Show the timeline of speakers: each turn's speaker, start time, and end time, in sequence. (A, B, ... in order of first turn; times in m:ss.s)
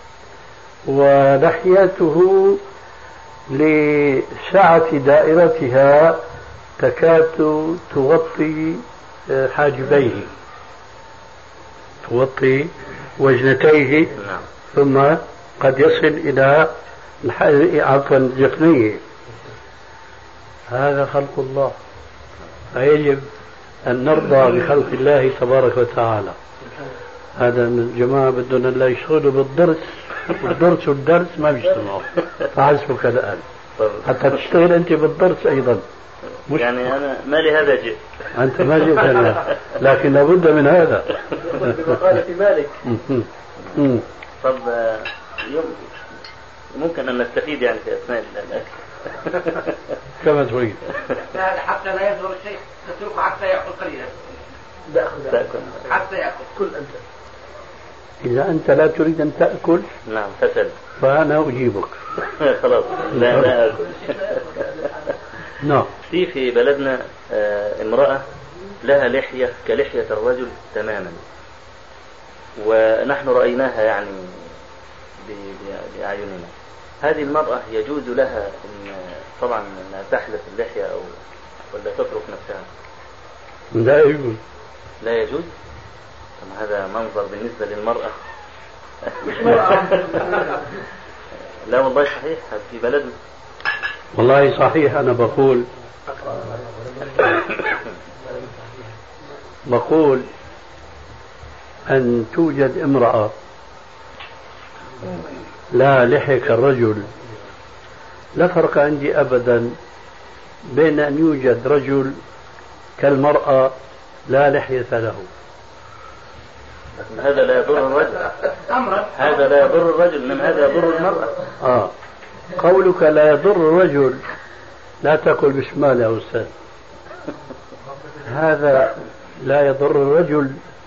0:00.8-0:02.6 A
0:03.5-0:06.2 A
0:06.8-0:10.3 A
0:12.0-0:14.2 A
0:14.7-0:19.0 A
0:20.7-0:21.8 A
0:22.7-0:23.2 A
0:23.8-0:26.4 A
0:27.4-0:33.4 A
0:33.8-0:34.0 B
0:34.0-0:35.8 A
0:36.5-0:38.0 B
0:38.3-0:42.0 A
0:42.2-0:42.7 B
0:42.8-0:44.0 A
0:44.4-0:45.8 B
0:46.7-0:49.7 B
0:50.2-0:50.8 A
0:51.3-0:54.2 C
0:55.1-0:55.8 B
0:55.8-0:56.8 C
0:58.2-0:59.9 A
1:00.0-1:00.7 B
1:01.0-1:02.0 A
1:02.3-1:04.8 B
1:03.1-1:03.5 A
1:05.6-1:05.9 A
1:06.1-1:08.2 B
1:08.8-1:11.2 B
1:12.6-1:14.4 B
1:15.2-1:21.1 B
1:21.7-1:22.7 B
1:23.7-1:24.4 A
1:25.0-1:25.5 B
1:26.4-1:28.2 B
1:29.0-1:30.6 B
1:31.6-1:33.1 B
1:34.1-1:35.7 A
1:39.7-1:40.2 A
1:41.9-1:43.3 A
1:45.7-1:47.1 A
1:48.4-1:49.7 A
1:50.7-1:52.2 A
1:53.0-1:53.8 A
1:54.3-1:55.3 A
1:57.0-1:58.4 B
1:58.6-1:59.4 C
1:59.1-2:01.3 B
2:01.6-2:01.9 A
2:02.6-2:04.2 A
2:05.0-2:06.5 A
2:08.2-2:10.6 A